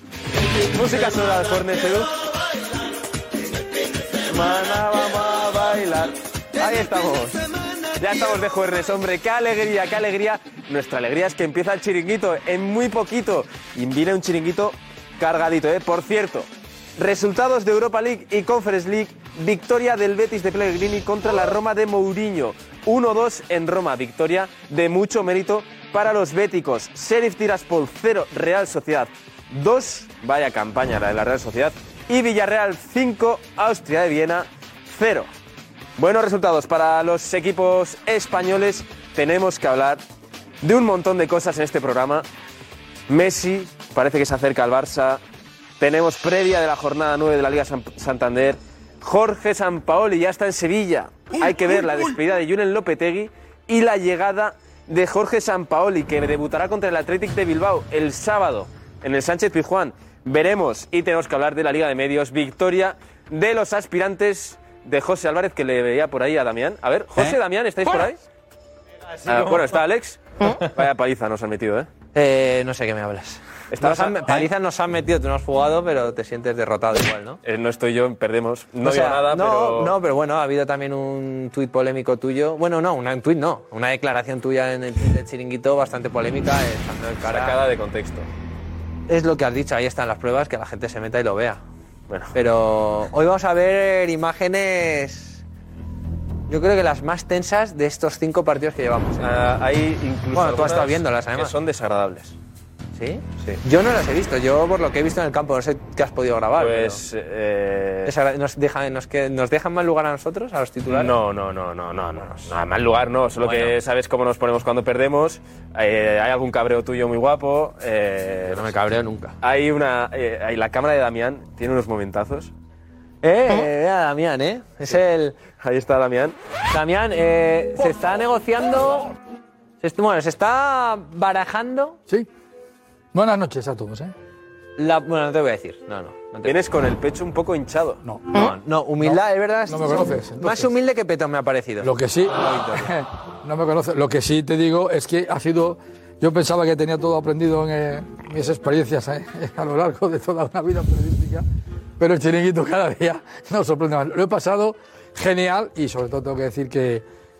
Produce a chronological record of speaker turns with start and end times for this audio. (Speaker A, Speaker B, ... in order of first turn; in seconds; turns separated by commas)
Speaker A: 0.7-2.1, Speaker A: 4.3-7.4, Speaker A: 8.0-35.3, Speaker A: 36.0-40.0, Speaker A: 40.6-42.2, Speaker A: 43.1-45.2, Speaker A: 45.8-68.2, Speaker A: 69.3-70.2, Speaker B: 69.3-69.7, Speaker A: 70.7-71.9, Speaker B: 72.1-77.4, Speaker A: 73.7-74.5, Speaker A: 77.4-79.9, Speaker B: 78.8-87.6, Speaker A: 87.2-88.3, Speaker B: 89.1-91.6, Speaker A: 92.1-92.3, Speaker B: 92.3-95.4, Speaker B: 96.5-99.3, Speaker A: 99.2-102.3, Speaker B: 100.3-101.5, Speaker B: 102.9-107.0, Speaker A: 106.6-108.1, Speaker B: 108.0-111.2, Speaker A: 110.9-112.0, Speaker B: 111.8-113.8, Speaker A: 113.1-118.7, Speaker B: 118.4-119.3, Speaker A: 119.4-122.5, Speaker B: 123.2-125.4, Speaker A: 125.6-126.3, Speaker B: 126.7-129.1, Speaker B: 129.8-132.0, Speaker C: 133.1-134.1, Speaker B: 134.8-136.6, Speaker A: 136.4-138.0, Speaker C: 138.0-138.4, Speaker B: 138.3-141.9, Speaker C: 139.0-140.7, Speaker C: 141.8-151.4, Speaker B: 142.4-142.9, Speaker C: 152.0-157.0